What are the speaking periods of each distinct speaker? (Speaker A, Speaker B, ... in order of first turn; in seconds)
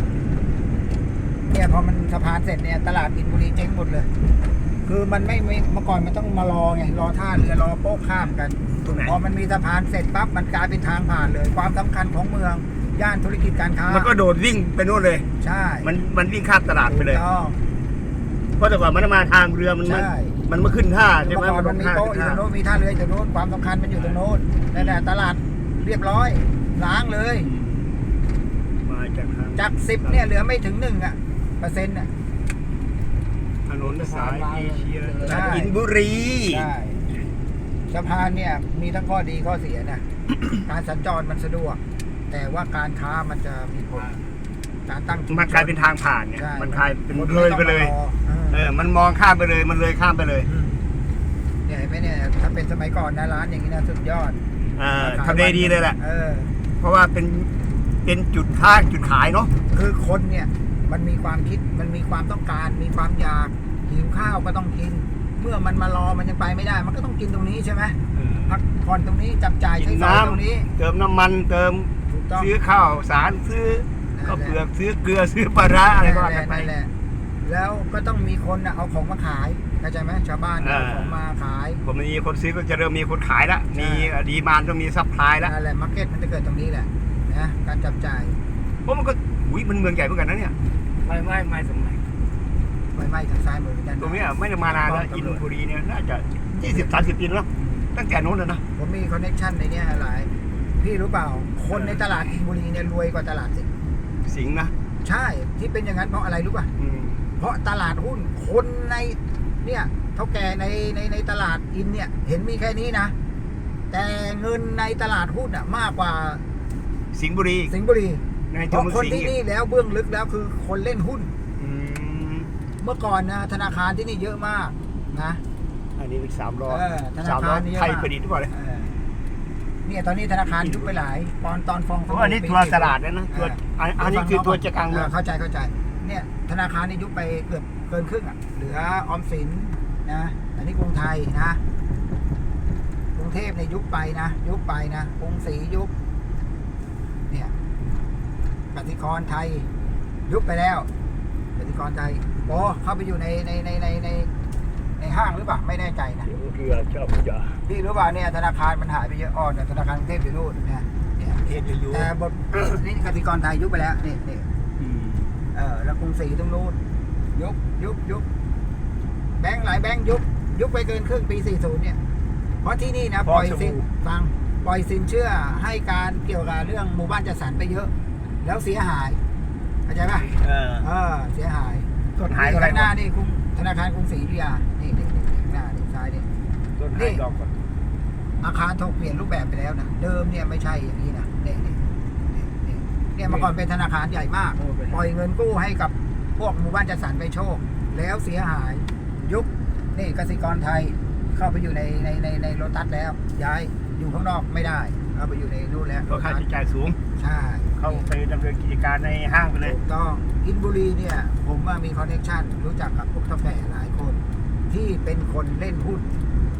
Speaker A: 1.4-4.1, 4.8-14.1, 15.4-15.9, 16.8-17.6, 19.8-20.4, 21.2-27.5, 29.6-32.1, 35.2-35.8, 36.5-37.0, 37.9-40.0, 40.6-44.2, 44.9-45.8, 46.3-48.7, 50.4-50.8, 51.6-54.4, 55.0-56.5, 59.7-70.7, 72.1-72.5, 74.1-74.6, 75.9-76.9, 77.4-81.8, 83.7-84.1, 85.4-88.4, 92.9-95.4, 96.6-97.9, 98.7-103.7, 105.0-106.7, 107.4-113.1, 113.9-116.4, 117.7-121.3, 122.8-125.4, 126.7-129.1, 129.8-141.6, 143.2-145.9, 147.3-147.5, 148.7-149.7, 150.3-150.9, 151.6-154.3, 155.0-156.3, 157.7-164.5, 165.5-166.8, 167.3-168.3, 169.4-172.0, 172.6-179.2, 179.9-186.3, 186.9-187.2, 188.4-191.8, 192.3-206.4, 207.2-208.1, 209.6-216.1
Speaker B: 8.8-9.2, 13.9-15.3, 15.8-17.2, 18.6-22.4, 23.9-24.2, 24.7-25.1, 27.4-28.0, 28.8-30.3, 33.7-36.7, 45.3-47.9, 48.5-50.5, 54.8-56.0, 56.8-57.5, 58.0-59.5, 68.1-68.6, 69.7-76.7, 80.6-81.2, 81.8-85.5, 88.8-90.5, 94.0-98.6, 101.7-102.1, 104.2-104.7, 106.8-107.2, 117.1-117.7, 118.5-119.3, 121.6-122.5, 126.0-128.5, 130.5-131.0, 132.1-135.1, 156.3-157.6, 161.4-162.8, 164.8-165.3, 173.2-173.9, 180.4-180.9, 182.2-182.9, 186.8-187.6, 206.1-207.0, 207.8-209.8
Speaker C: 33.9-35.5, 91.0-92.0